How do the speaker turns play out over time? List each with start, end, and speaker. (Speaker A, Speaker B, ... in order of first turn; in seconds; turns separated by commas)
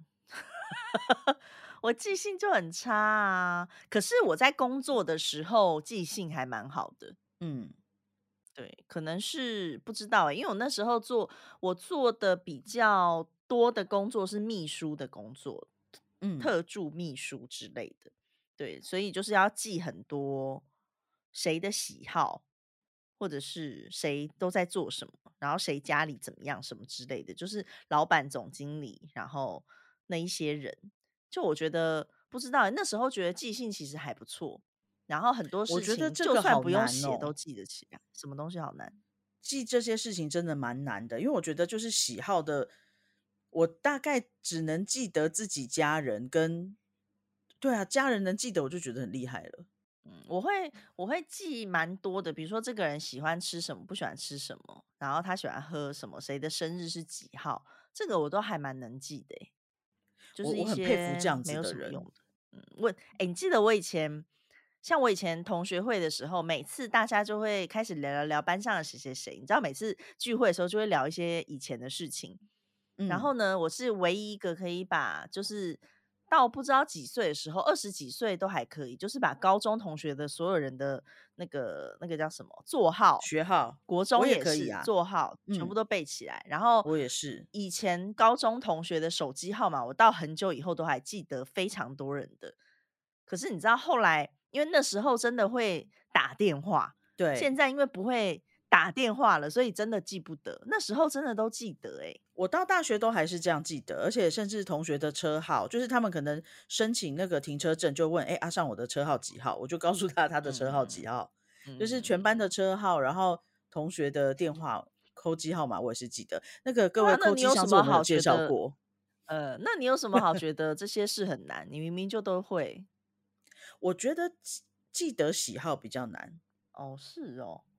Speaker A: 0.3-7.2, Speaker B: 7.4-7.7, Speaker A: 8.5-15.7, Speaker B: 16.2-16.5, Speaker A: 16.4-20.6, Speaker A: 21.3-22.4, Speaker A: 23.2-38.9, Speaker B: 35.7-37.3, Speaker B: 39.4-42.7, Speaker B: 43.5-46.8, Speaker B: 47.6-49.6, Speaker A: 50.0-59.5, Speaker A: 60.4-64.3, Speaker B: 60.4-62.0, Speaker A: 64.8-72.4, Speaker B: 73.0-73.3, Speaker A: 73.1-83.3, Speaker B: 83.2-84.9, Speaker A: 83.9-86.9, Speaker B: 85.5-85.7, Speaker B: 86.8-87.5, Speaker A: 87.5-92.5, Speaker A: 93.3-102.2, Speaker B: 97.2-97.5, Speaker B: 102.3-118.8, Speaker A: 110.4-111.0, Speaker A: 111.7-112.2, Speaker A: 117.0-118.5, Speaker A: 119.3-122.9, Speaker B: 123.8-126.4, Speaker A: 126.7-127.6